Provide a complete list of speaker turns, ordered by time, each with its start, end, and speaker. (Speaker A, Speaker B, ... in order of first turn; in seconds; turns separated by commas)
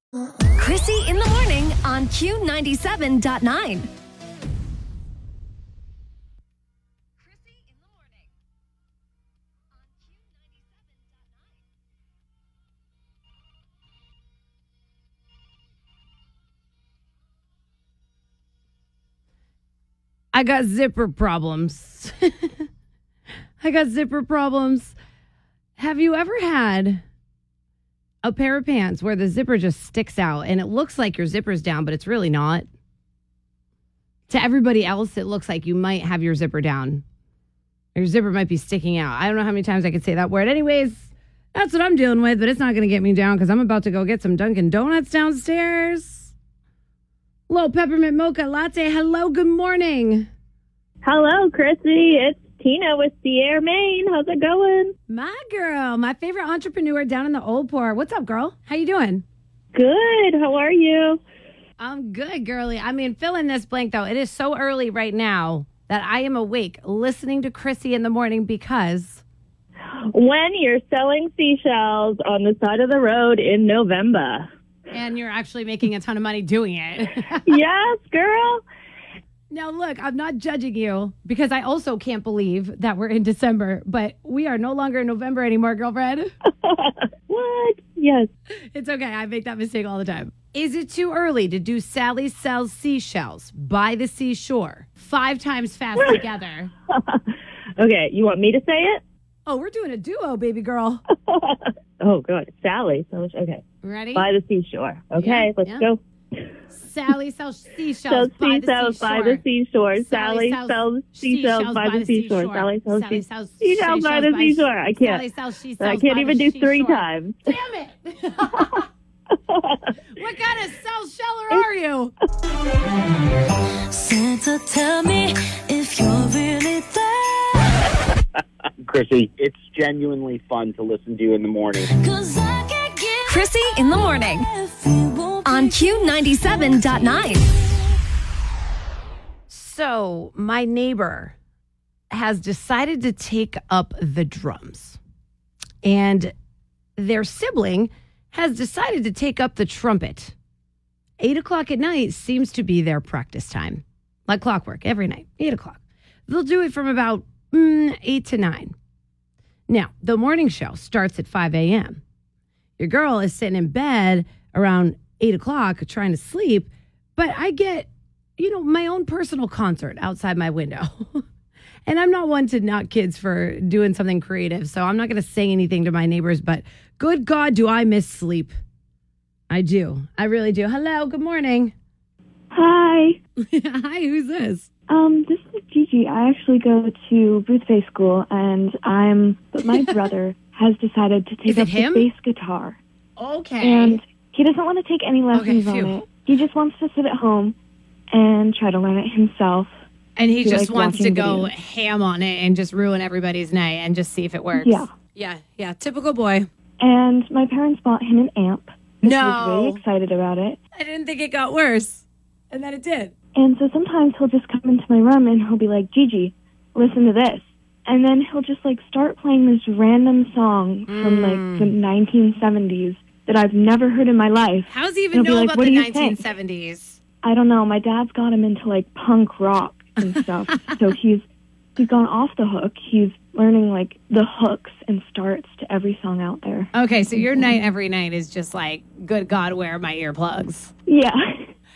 Speaker A: 0.6-3.9, Speaker B: 20.3-22.5, Speaker B: 23.6-24.9, Speaker B: 25.8-27.0, Speaker B: 28.2-32.7, Speaker B: 34.3-37.0, Speaker B: 38.0-46.3, Speaker B: 47.5-50.3, Speaker C: 51.0-55.0, Speaker B: 55.1-59.2, Speaker C: 59.7-61.2, Speaker B: 61.8-69.2, Speaker C: 70.1-74.5, Speaker B: 74.9-77.4, Speaker C: 77.5-78.6, Speaker B: 79.5-86.3, Speaker C: 86.6-88.3, Speaker B: 88.7-96.7, Speaker C: 97.0-97.2, Speaker C: 97.8-99.0, Speaker B: 99.5-101.0, Speaker C: 101.3-106.4, Speaker B: 103.8-104.3, Speaker B: 105.2-105.9, Speaker B: 106.7-109.4, Speaker C: 108.1-115.2, Speaker B: 110.0-118.8, Speaker C: 115.8-117.4, Speaker C: 119.3-119.9, Speaker B: 120.1-122.1, Speaker D: 123.9-127.9, Speaker E: 128.8-131.9, Speaker D: 131.9-133.5, Speaker A: 133.3-134.5, Speaker D: 134.5-135.8, Speaker A: 135.4-137.5, Speaker D: 137.0-137.4, Speaker B: 139.5-141.3, Speaker B: 142.1-145.0, Speaker B: 145.8-146.3, Speaker B: 147.0-150.3, Speaker B: 151.2-158.7, Speaker B: 159.7-162.0, Speaker B: 162.8-171.2, Speaker B: 171.9-178.6, Speaker B: 179.5-181.7, Speaker F: 182.5-183.2, Speaker B: 183.4-184.7, Speaker F: 184.9-192.8, Speaker B: 191.4-192.1, Speaker B: 193.2-194.0, Speaker F: 193.6-197.6, Speaker B: 195.3-196.0, Speaker F: 198.1-199.8, Speaker B: 200.2-206.5, Speaker F: 200.4-201.5, Speaker F: 204.6-204.9, Speaker F: 206.8-210.6, Speaker B: 209.0-209.8, Speaker B: 210.8-213.1, Speaker F: 213.4-226.2, Speaker B: 220.9-221.7, Speaker B: 224.7-227.0, Speaker F: 227.2-231.2, Speaker F: 231.8-237.5, Speaker B: 236.7-240.7, Speaker F: 240.9-241.5